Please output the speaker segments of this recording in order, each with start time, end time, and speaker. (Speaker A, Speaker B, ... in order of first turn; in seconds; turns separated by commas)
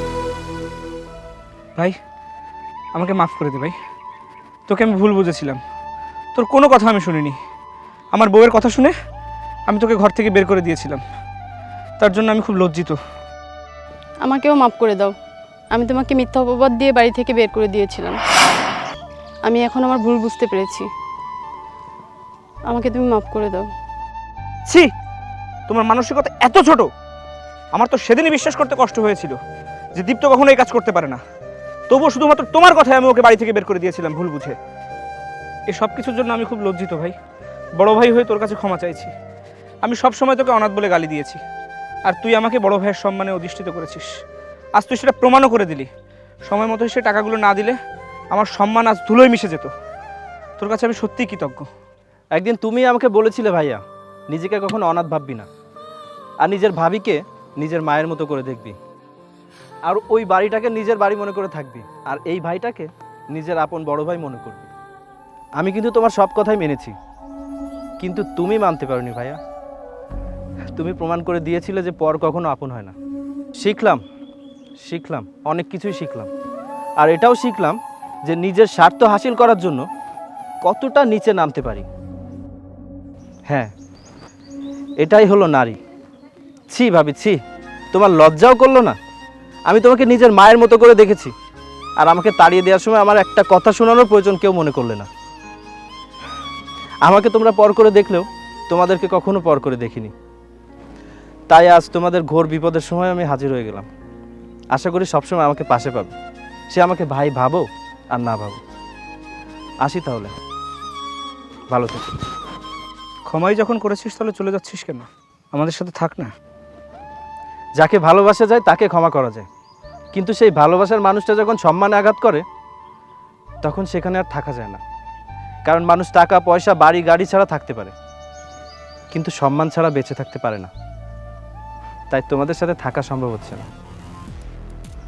Speaker A: 2.9-3.7, Speaker A: 4.7-5.6, Speaker A: 6.3-7.3, Speaker A: 8.1-8.9, Speaker A: 9.7-11.0, Speaker A: 12.0-13.0, Speaker B: 14.2-15.1, Speaker B: 15.7-18.2, Speaker B: 19.4-20.9, Speaker B: 22.7-23.7, Speaker A: 25.7-26.9, Speaker A: 27.7-29.4, Speaker A: 30.0-31.2, Speaker A: 31.9-34.5, Speaker A: 35.7-37.1, Speaker A: 37.8-39.1, Speaker A: 39.8-41.4, Speaker A: 42.0-44.1, Speaker A: 44.8-45.9, Speaker A: 46.5-47.8, Speaker A: 48.3-49.7, Speaker A: 50.6-51.7, Speaker C: 52.3-55.5, Speaker C: 56.4-58.8, Speaker C: 59.9-64.7, Speaker C: 65.6-66.9, Speaker C: 68.0-69.4, Speaker C: 70.8-72.9, Speaker C: 73.6-74.0, Speaker C: 74.8-76.3, Speaker C: 77.0-79.8, Speaker C: 80.6-81.9, Speaker C: 85.0-85.8, Speaker C: 86.7-87.3, Speaker C: 87.9-89.0, Speaker C: 89.7-91.3, Speaker C: 92.0-95.1, Speaker C: 97.0-100.1, Speaker C: 101.5-103.9, Speaker C: 104.7-106.1, Speaker C: 106.7-108.6, Speaker C: 109.8-110.3, Speaker C: 111.7-112.1, Speaker A: 113.3-116.3, Speaker C: 117.8-119.4, Speaker C: 120.1-122.4, Speaker C: 123.6-124.8, Speaker C: 125.7-127.9, Speaker C: 129.1-130.7, Speaker C: 132.1-133.7